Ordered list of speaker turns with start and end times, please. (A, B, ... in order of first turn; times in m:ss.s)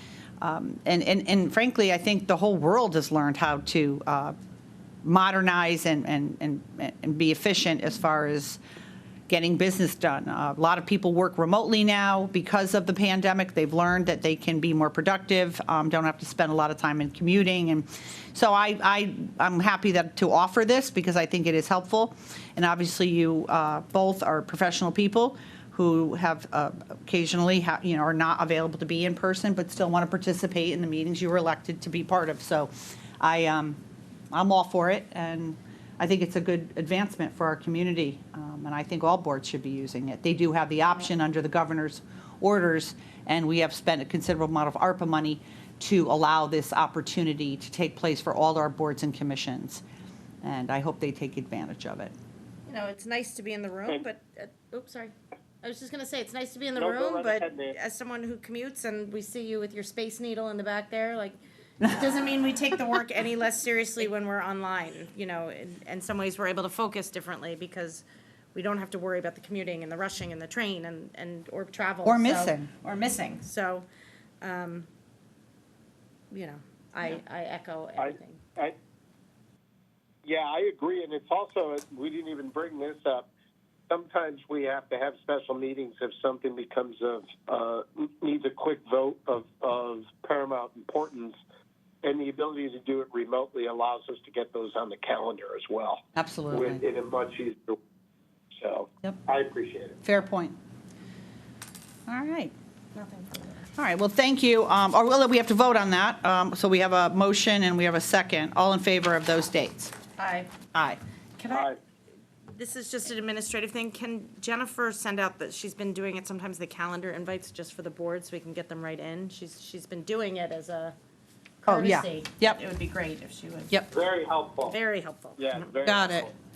0:00.4-0:04.3 A
0:05.0-0:08.6 A
0:09.3-0:33.8 A
0:34.3-0:49.8 A
0:50.4-0:52.1 A
0:52.7-1:13.9 B
0:56.8-0:57.8 C
1:12.0-1:12.7 A
1:14.4-1:14.9 B
1:16.3-1:18.4 B
1:18.0-1:18.7 C
1:20.2-1:23.3 C
1:23.9-1:31.3 C
1:32.0-1:37.8 C
1:36.2-1:36.8 A
1:38.6-1:40.0 C
1:40.0-1:40.6 A
1:42.1-1:42.5 A
1:42.9-1:43.6 B
1:43.8-1:49.9 A
1:50.2-1:50.5 B
1:50.7-1:51.0 A
1:51.4-1:51.7 B
1:51.5-1:51.8 C
1:52.5-2:01.0 B
2:01.6-2:03.8 B
2:01.7-2:02.6 A
2:03.9-2:04.8 C
2:04.6-2:05.7 B
2:05.4-2:06.3 C
2:05.8-2:06.3 A